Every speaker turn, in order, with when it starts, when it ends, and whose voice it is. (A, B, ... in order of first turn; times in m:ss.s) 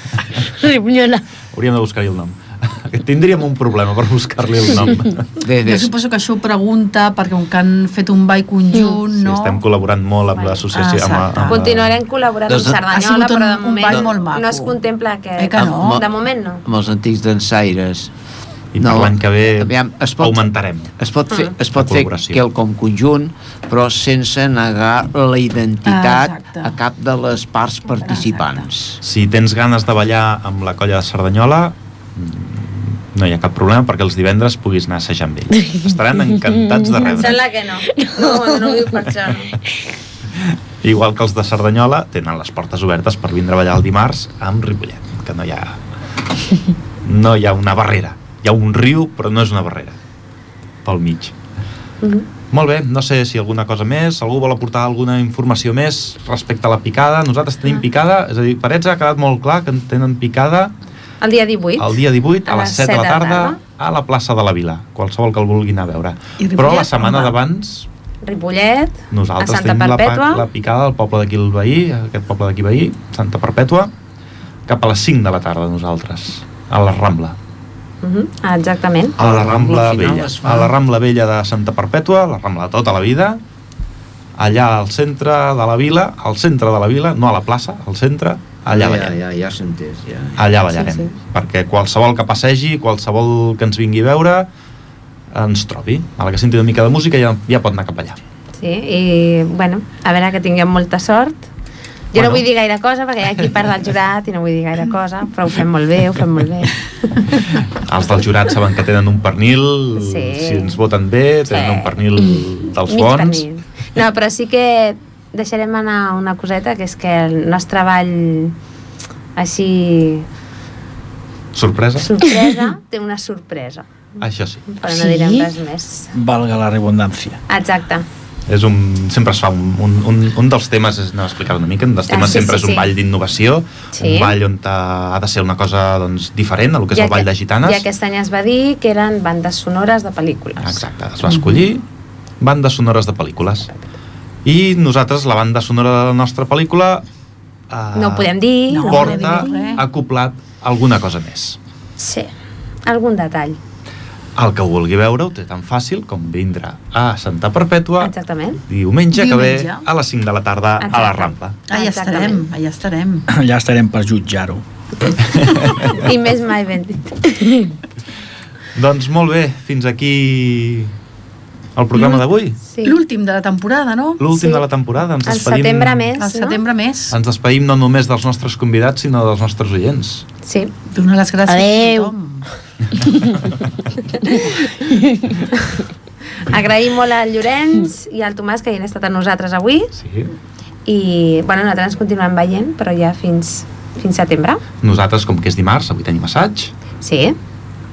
0:00.4-0:01.2 A
0:01.5-0:05.3 B
0:05.4-0:05.9 C
0:05.6-0:09.6 D
0:08.7-0:09.0 A
0:09.1-0:12.0 B
0:10.7-0:11.6 D
0:11.5-0:16.6 E
0:12.5-0:12.8 C
0:12.8-0:14.8 D
0:15.4-0:16.0 D
0:15.6-0:16.1 C
0:16.6-0:18.1 C
0:18.7-0:21.0 B
0:18.8-0:20.4 C
0:21.0-0:29.0 C
0:21.7-0:22.4 B
0:25.8-0:26.8 D
0:28.0-0:28.6 D
0:29.0-0:37.4 B
0:36.8-0:37.1 A
0:37.0-0:39.6 E
0:37.9-0:38.8 A
0:40.4-0:45.8 B
0:47.0-0:50.0 B
0:50.8-0:51.4 B
0:52.5-1:00.7 B
1:01.2-1:02.0 E
1:01.8-1:07.9 B
1:02.5-1:03.6 E
1:06.4-1:07.4 D
1:08.2-1:10.5 E
1:09.1-1:13.9 B
1:14.7-1:17.4 B
1:18.0-1:19.2 E
1:19.2-1:20.7 C
1:19.2-1:23.4 B
1:24.4-1:29.2 B
1:28.7-1:31.1 C
1:30.4-1:34.5 B
1:35.3-1:38.2 B
1:38.6-1:41.5 E
1:42.1-1:46.9 E
1:42.2-1:42.4 B
1:47.8-1:53.4 B
1:50.0-1:50.8 E
1:51.5-1:51.9 E
1:52.9-1:58.6 E
1:59.4-2:00.3 E
2:01.5-2:02.2 B
2:02.0-2:03.9 E
2:04.2-2:04.7 B
2:04.7-2:06.1 E
2:04.9-2:05.5 A
2:06.1-2:07.4 F
2:07.5-2:08.0 E
2:08.5-2:17.8 B
2:12.1-2:12.9 E
2:13.9-2:14.4 E
2:16.9-2:20.8 E
2:20.6-2:21.9 B
2:22.4-2:23.7 B
2:24.4-2:27.1 B
2:27.7-2:31.6 B
2:27.9-2:29.8 E
2:28.7-2:29.8 D
2:32.0-2:32.3 E
2:32.9-2:33.6 E
2:34.4-2:38.1 B
2:38.0-2:38.6 E
2:38.7-2:41.6 B
2:39.1-2:39.9 D
2:40.8-2:42.5 E
2:41.7-2:43.3 D
2:43.3-2:44.6 F
2:45.4-2:45.9 B
2:45.8-2:47.3 E
2:48.8-2:50.9 B
2:51.8-2:52.6 B
2:52.0-2:53.0 E
2:52.8-2:54.6 D
2:54.2-2:56.2 B
2:55.3-2:56.6 E
2:56.2-2:57.2 D
2:57.1-3:00.3 B
3:00.4-3:00.7 E
3:00.9-3:02.5 D
3:01.5-3:02.1 A
3:06.4-3:09.9 E
3:10.0-3:10.3 B
3:10.9-3:14.6 E
3:14.8-3:16.7 B
3:17.0-3:17.4 E